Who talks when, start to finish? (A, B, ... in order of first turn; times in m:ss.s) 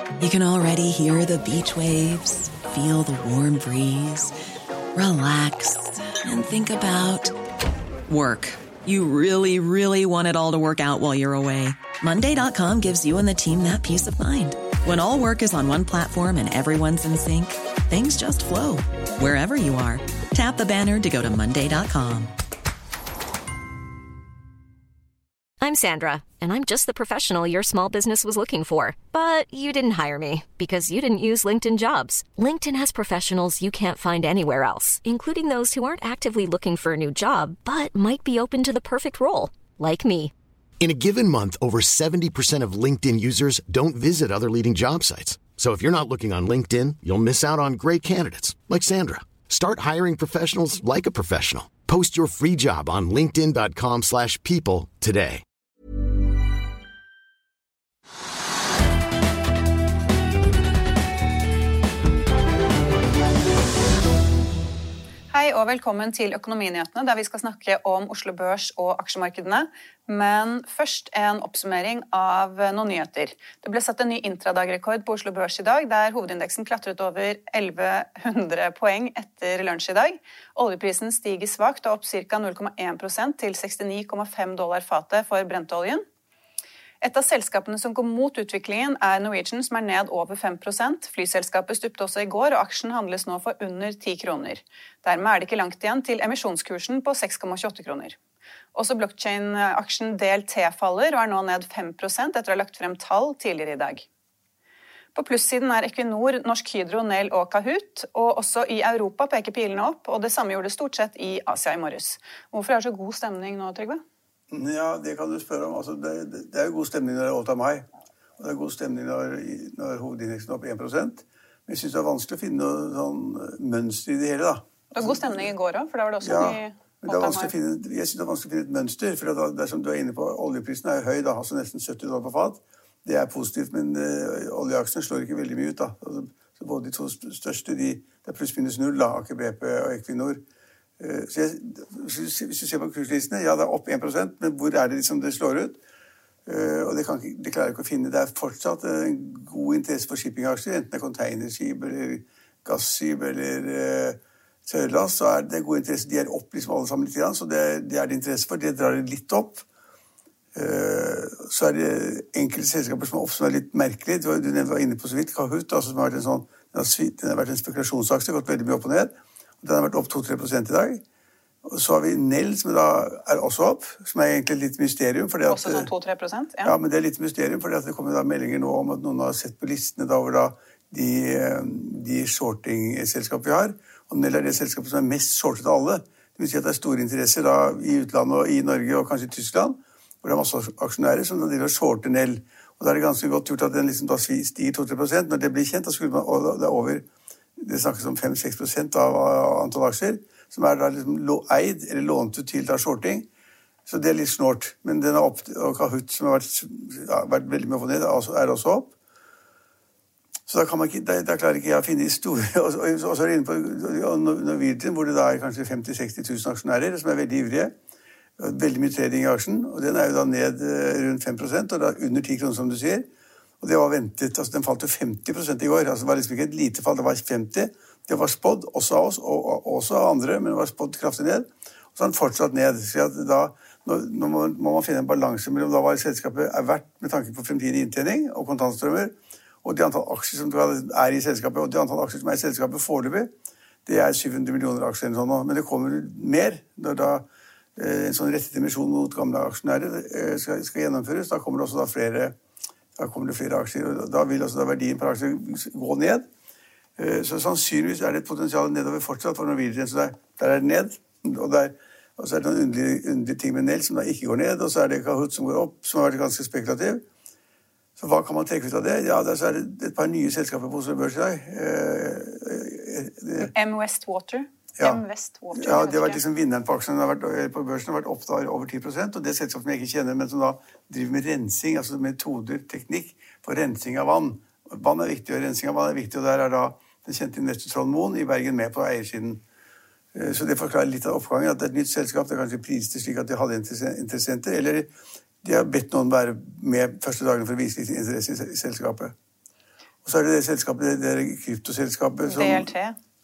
0:00.2-0:04.3 A
0:04.9-0:07.4 A
0:08.1-0:22.3 A
0:25.6-0:40.3 B
0:40.8-0:55.4 C
1:05.3-1:26.0 D
1:27.0-1:38.2 D
1:38.7-1:44.1 D
1:45.1-1:54.0 D
1:54.5-1:57.8 E
1:58.4-2:05.5 E
2:04.9-2:07.5 D
2:06.2-2:20.4 E
2:21.0-2:25.8 E
2:26.4-2:39.6 E
2:40.5-2:51.0 E
2:51.6-2:55.9 E
2:55.5-2:56.7 D
2:56.6-3:17.0 E
3:17.6-3:23.3 E
3:23.8-3:28.9 E
3:30.5-3:37.7 E
3:38.4-3:43.1 E
3:43.6-4:03.3 E
4:03.8-4:12.4 E
4:13.0-4:16.2 E
4:17.0-4:27.0 E
4:28.0-4:33.5 E
4:33.4-4:36.2 D
4:35.5-4:49.4 E
4:50.1-4:54.9 E
4:55.4-4:59.1 E
5:00.0-5:02.7 E
5:02.2-5:03.0 D